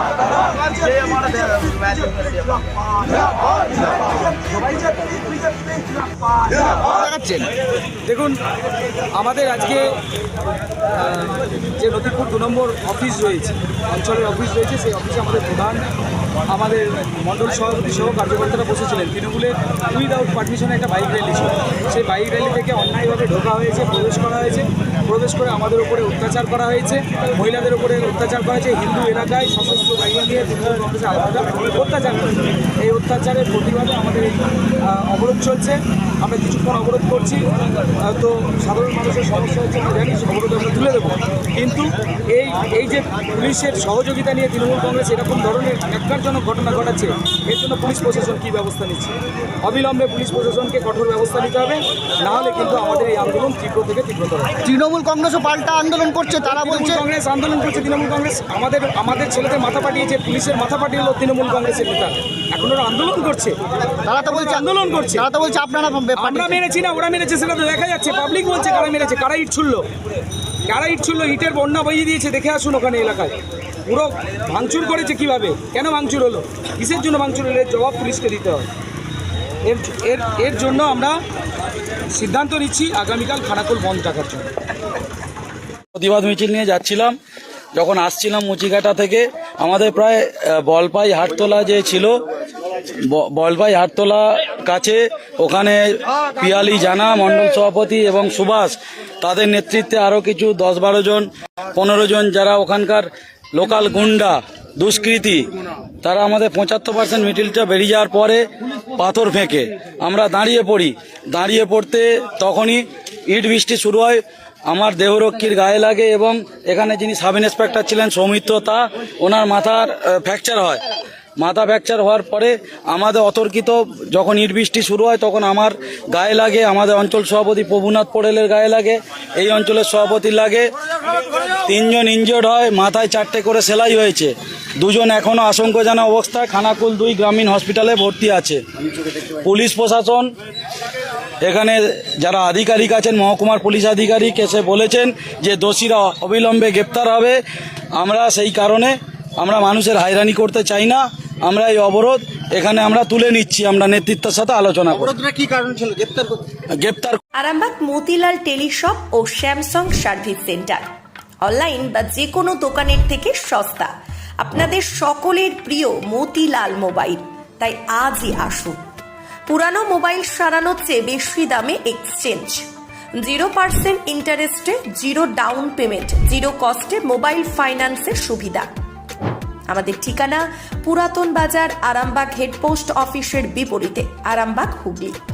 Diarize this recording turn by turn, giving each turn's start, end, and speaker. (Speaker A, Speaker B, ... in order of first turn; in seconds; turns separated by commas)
Speaker A: 6.6-7.5, Speaker B: 8.0-8.4, Speaker B: 9.1-9.9, Speaker B: 10.9-15.8, Speaker B: 16.5-37.5, Speaker B: 38.0-54.5, Speaker A: 54.6-57.0, Speaker B: 56.5-63.6, Speaker A: 64.0-66.6, Speaker B: 64.2-65.2, Speaker B: 66.2-69.9, Speaker B: 70.7-78.7, Speaker B: 79.7-81.2, Speaker B: 82.1-84.5, Speaker C: 85.9-87.2, Speaker C: 87.8-92.1, Speaker C: 93.0-105.5, Speaker C: 106.0-120.8, Speaker C: 121.4-130.7, Speaker C: 131.6-140.3, Speaker C: 141.4-147.4, Speaker C: 148.0-155.2, Speaker C: 156.7-157.2, Speaker D: 157.4-160.8, Speaker D: 161.4-168.8, Speaker D: 169.5-172.7, Speaker D: 173.2-178.7, Speaker D: 179.7-185.2